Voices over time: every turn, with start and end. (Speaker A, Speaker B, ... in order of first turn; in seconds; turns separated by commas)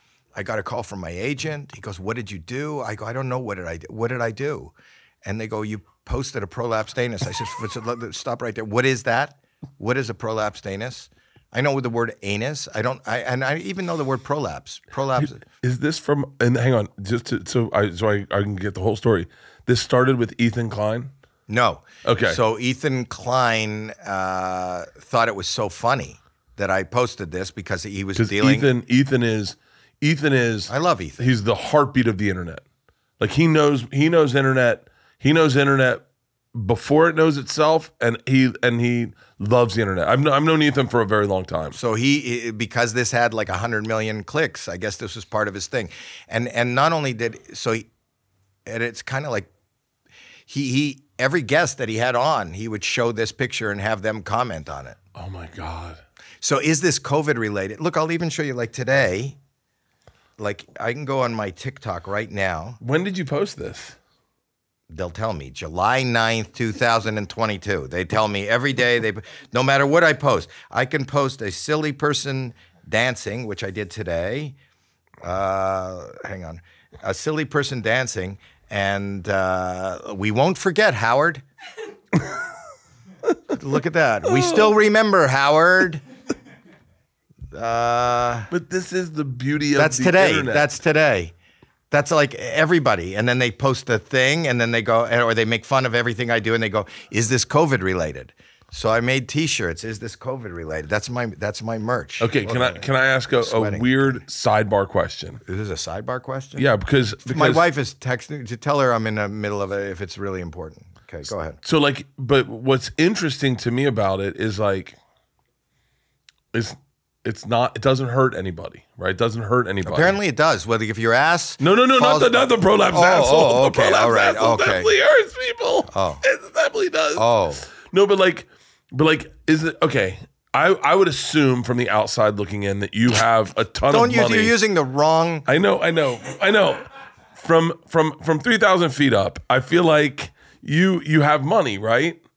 Speaker A: 0.3-4.7, Speaker A: 5.2-15.4, Speaker B: 15.5-21.1, Speaker A: 21.5-28.7, Speaker B: 22.0-22.4, Speaker B: 28.1-32.6, Speaker A: 30.7-31.3, Speaker B: 33.2-41.8, Speaker A: 41.7-47.9, Speaker A: 48.7-49.5, Speaker A: 50.5-55.0, Speaker B: 55.1-56.0, Speaker A: 56.4-59.4, Speaker A: 60.4-62.8, Speaker B: 62.8-64.0, Speaker A: 64.9-74.5, Speaker A: 75.2-81.4, Speaker A: 83.5-86.0, Speaker B: 84.3-84.7, Speaker A: 87.5-88.5, Speaker B: 88.5-90.7, Speaker A: 89.7-91.3, Speaker A: 91.9-104.2, Speaker B: 102.2-105.4, Speaker A: 105.5-106.7, Speaker B: 106.5-107.7, Speaker A: 107.2-111.6, Speaker B: 111.6-115.0, Speaker B: 116.5-120.2, Speaker A: 119.8-124.9, Speaker B: 121.6-134.5, Speaker A: 125.9-126.2, Speaker A: 127.2-127.7, Speaker A: 133.9-135.4, Speaker B: 135.4-142.2